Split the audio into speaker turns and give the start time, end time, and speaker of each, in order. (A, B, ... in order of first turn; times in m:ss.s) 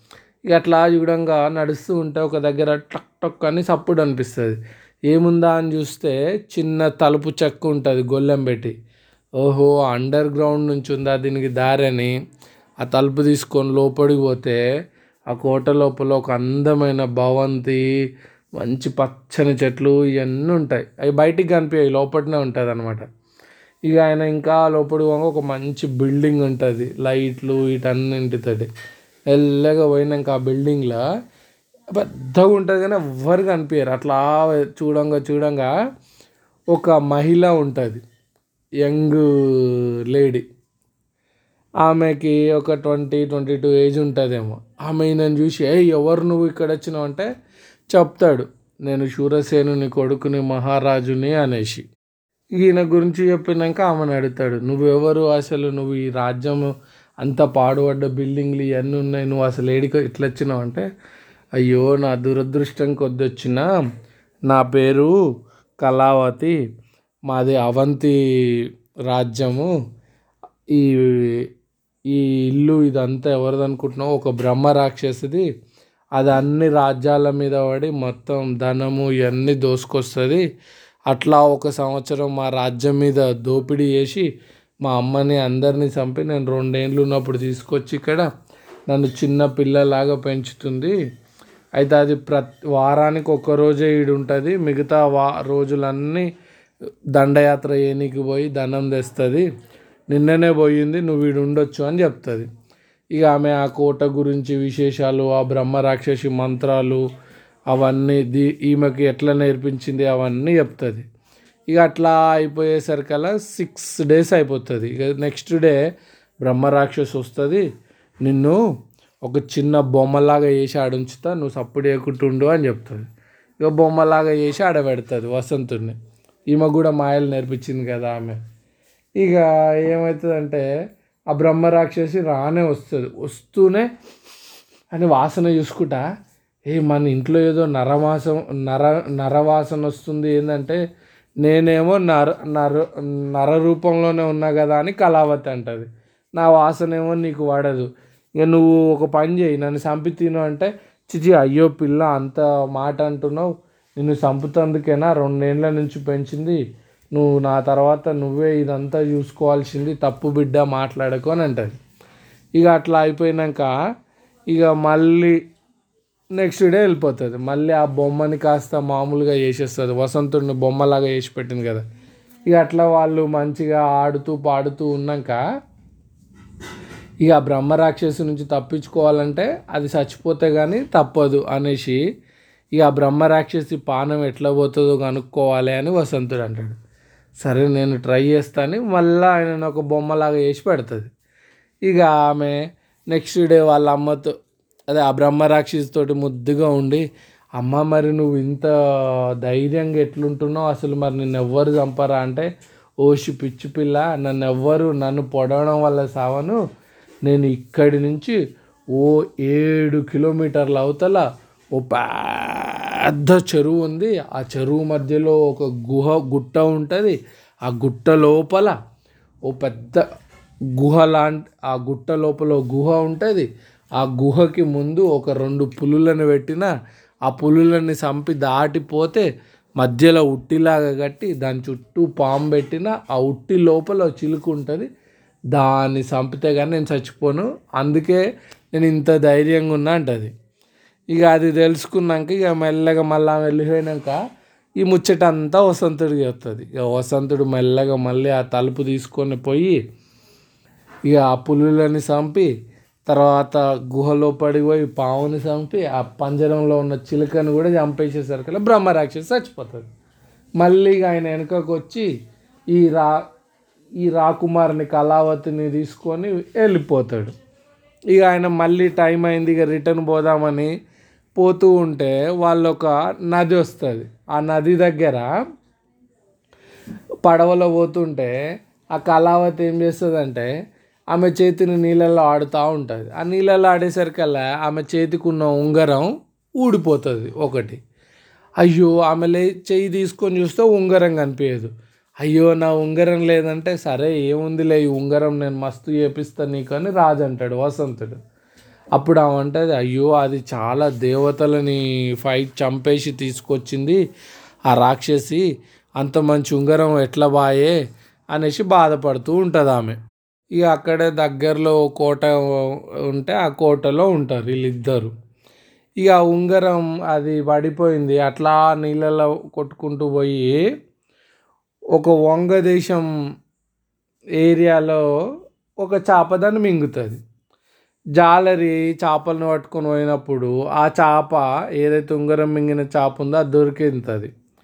0:00.5-0:04.6 A
0:05.1-0:08.7 A
0:09.4-0:12.1 A
0:12.8-0:14.6 A
0:15.3-0:17.8 A
0:18.6-0:23.0 A
0:23.9-0:28.7 A
0:29.3-0:31.0 A
0:31.9-0:35.7 A
0:36.7-0:38.0 A
0:38.8-0:40.4 A
0:41.8-0:47.3 A
0:47.9-0:51.9 A
0:52.6-0:56.7 A
0:57.2-1:00.8 A
1:01.6-1:03.7 A
1:04.5-1:05.1 A
1:05.8-1:06.6 A
1:07.3-1:08.2 A
1:09.1-1:09.7 A
1:10.7-1:11.4 A
1:12.1-1:15.5 A
1:16.2-1:20.4 A
1:21.1-1:24.3 A
1:24.8-1:28.3 A
1:28.9-1:30.9 A
1:31.8-1:36.3 A
1:37.2-1:39.5 A
1:40.1-1:42.5 A
1:43.1-1:47.0 A
1:47.7-1:51.0 A
1:51.7-1:55.8 A
1:56.4-1:57.6 A
1:58.2-1:58.6 A
1:59.2-2:03.1 A
2:03.6-2:06.0 A
2:06.5-2:08.4 A
2:09.2-2:10.6 A
2:11.3-2:13.9 A
2:14.9-2:16.0 A
2:16.7-2:20.8 A
2:21.4-2:27.9 A
2:28.4-2:36.6 A
2:37.1-2:41.8 A
2:42.6-2:43.7 A
2:44.5-2:45.4 A
2:46.4-2:51.8 A
2:52.5-2:55.4 A
2:57.2-3:02.0 A
3:02.8-3:06.8 A
3:07.4-3:11.1 A
3:11.9-3:12.6 A
3:13.1-3:14.3 A
3:14.9-3:17.0 A
3:17.6-3:22.5 A
3:23.0-3:26.6 A
3:27.3-3:28.4 A
3:28.9-3:38.8 A
3:39.5-3:40.0 A
3:40.8-3:43.5 A
3:44.0-3:46.7 A
3:47.3-3:49.2 A
3:49.8-3:54.9 A
3:55.5-4:00.3 A
4:01.1-4:04.2 A
4:04.8-4:09.8 A
4:11.1-4:12.5 A
4:13.1-4:19.9 A
4:20.6-4:22.1 A
4:22.7-4:23.1 A
4:24.0-4:27.3 A
4:28.1-4:30.7 A
4:31.4-4:35.3 A
4:37.2-4:38.4 A
4:38.9-4:40.5 A
4:41.1-4:47.8 A
4:48.6-4:51.7 A
4:52.2-4:58.2 A
4:59.0-5:04.0 A
5:04.7-5:05.4 A
5:06.0-5:07.8 A
5:08.3-5:10.0 A
5:10.6-5:12.4 A
5:13.1-5:15.1 A
5:16.0-5:20.6 A
5:22.0-5:23.1 A
5:24.4-5:25.0 A
5:25.8-5:27.2 A
5:28.2-5:34.3 A